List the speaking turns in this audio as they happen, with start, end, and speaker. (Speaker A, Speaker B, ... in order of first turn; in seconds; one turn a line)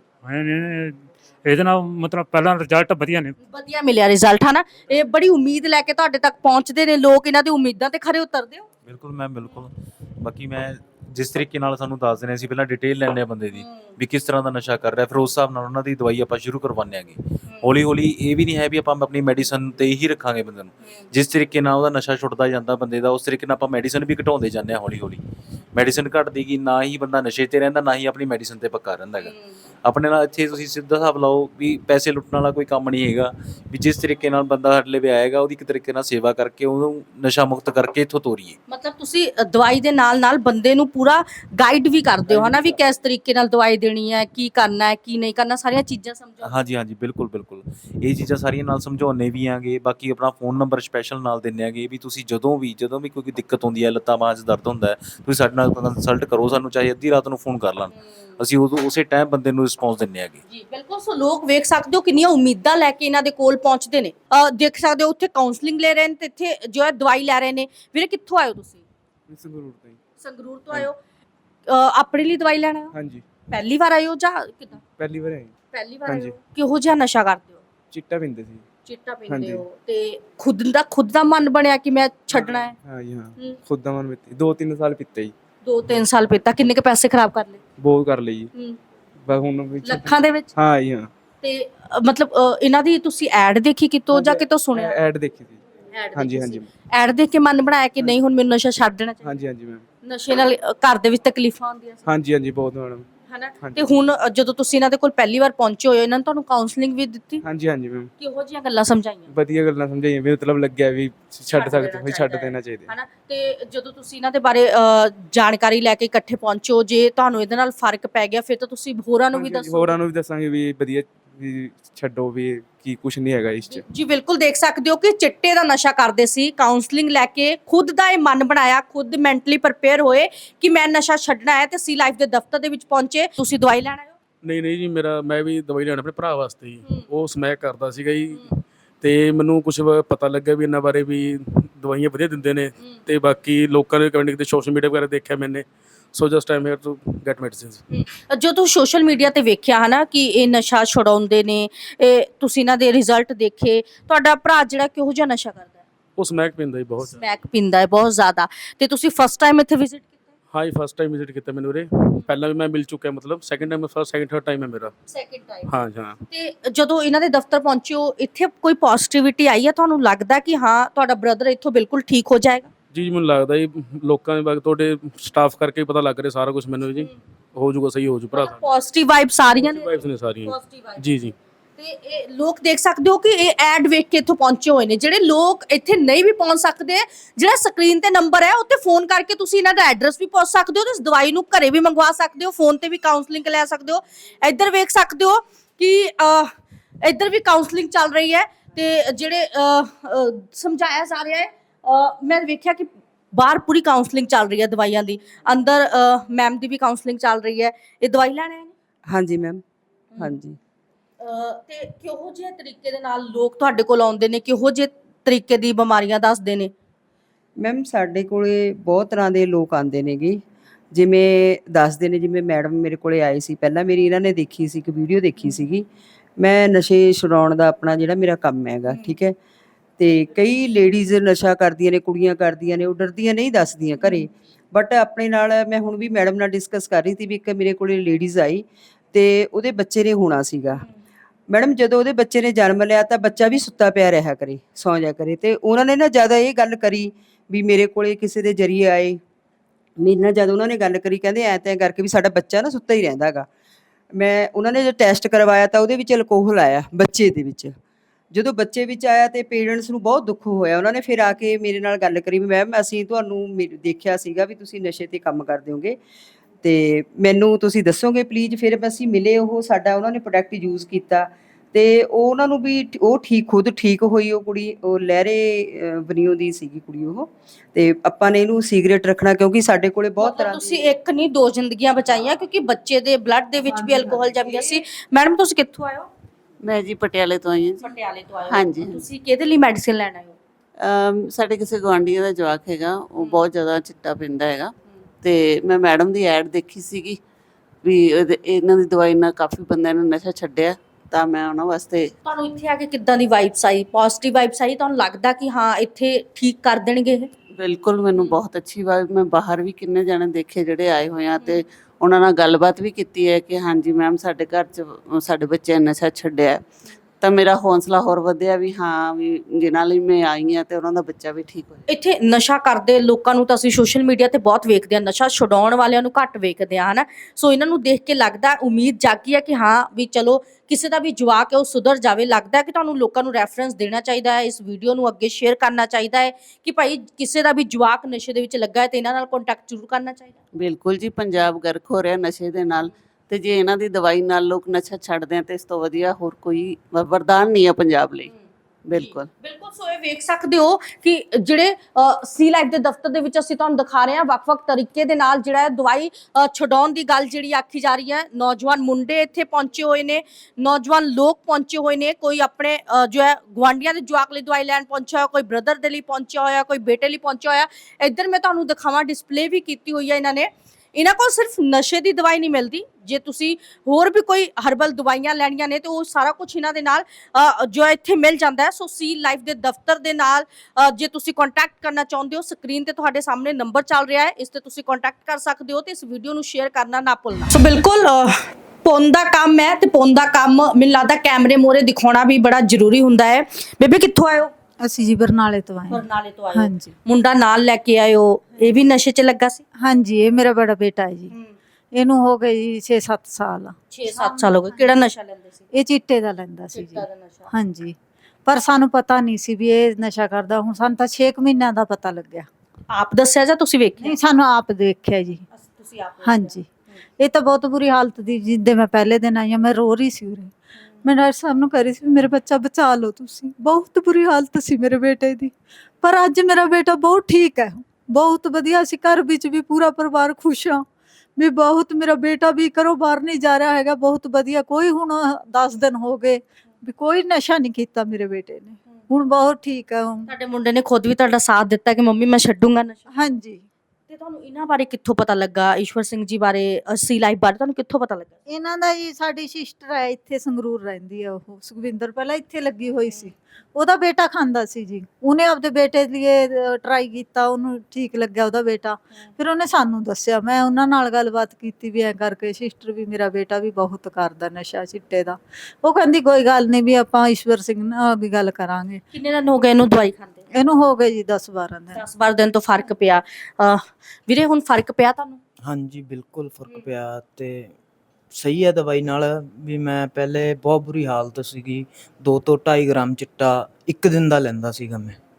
Speaker A: 0.2-3.4
Speaker B: 3.4-8.7
Speaker C: 8.8-25.2
Speaker B: 13.5-13.9
Speaker C: 25.7-29.3
Speaker B: 29.2-29.5
Speaker C: 29.8-38.6
Speaker B: 38.7-46.6
Speaker D: 42.3-42.7
Speaker C: 46.4-60.4
Speaker B: 60.5-68.8
Speaker D: 69.3-70.0
Speaker B: 70.2-71.0
Speaker B: 71.7-72.9
Speaker D: 72.9-73.2
Speaker B: 73.5-74.8
Speaker D: 75.0-75.5
Speaker B: 75.7-77.6
Speaker D: 76.0-76.3
Speaker D: 77.9-78.6
Speaker B: 78.8-82.7
Speaker D: 79.3-79.6
Speaker D: 82.3-85.3
Speaker B: 85.6-87.6
Speaker D: 87.8-88.5
Speaker D: 89.2-91.1
Speaker B: 89.8-90.5
Speaker B: 91.4-95.0
Speaker D: 94.1-95.6
Speaker B: 95.9-99.2
Speaker D: 96.1-96.7
Speaker D: 99.2-99.8
Speaker B: 100.0-102.0
Speaker D: 102.0-103.1
Speaker B: 103.3-107.4
Speaker D: 103.6-104.0
Speaker D: 107.4-108.1
Speaker B: 108.2-109.3
Speaker D: 109.3-112.9
Speaker B: 111.5-119.9
Speaker D: 119.3-123.8
Speaker B: 123.7-134.1
Speaker E: 134.4-147.8
Speaker B: 147.9-155.8
Speaker E: 156.2-157.2
Speaker B: 157.0-160.1
Speaker E: 160.5-164.9
Speaker B: 165.1-165.7
Speaker E: 165.7-166.2
Speaker B: 166.3-172.7
Speaker E: 172.9-178.7
Speaker B: 178.3-196.5
Speaker E: 179.5-181.3
Speaker B: 197.0-208.7
Speaker F: 209.1-209.6
Speaker B: 210.1-210.4
Speaker F: 210.2-210.6
Speaker B: 211.2-216.7
Speaker F: 217.6-220.4
Speaker F: 220.9-225.8
Speaker F: 226.4-229.3
Speaker F: 230.0-240.8
Speaker F: 241.5-249.2
Speaker F: 250.0-253.5
Speaker F: 254.1-257.8
Speaker F: 258.3-266.0
Speaker F: 266.6-280.9
Speaker B: 280.2-286.1
Speaker G: 283.7-284.3
Speaker H: 286.6-287.9
Speaker B: 287.8-290.4
Speaker H: 288.4-289.0
Speaker H: 290.8-297.2
Speaker B: 293.2-293.4
Speaker H: 297.8-302.1
Speaker B: 302.2-307.3
Speaker H: 307.6-316.7
Speaker B: 311.4-311.6
Speaker H: 317.2-321.8
Speaker B: 321.9-340.4
Speaker H: 340.6-348.3
Speaker H: 348.9-349.3
Speaker B: 348.9-394.5
Speaker G: 394.8-396.9
Speaker B: 395.9-399.6
Speaker G: 399.8-401.3
Speaker G: 401.9-405.1
Speaker B: 403.9-405.6
Speaker G: 405.7-412.5
Speaker B: 406.7-407.5
Speaker B: 412.9-414.2
Speaker G: 414.0-415.4
Speaker B: 415.5-416.6
Speaker G: 416.2-420.5
Speaker G: 421.0-430.8
Speaker G: 431.4-440.3
Speaker B: 440.3-443.0
Speaker G: 443.1-443.6
Speaker B: 444.1-448.4
Speaker G: 448.5-469.0
Speaker B: 469.1-470.4
Speaker G: 470.5-472.0
Speaker B: 471.9-475.4
Speaker I: 475.6-477.7
Speaker I: 478.3-485.2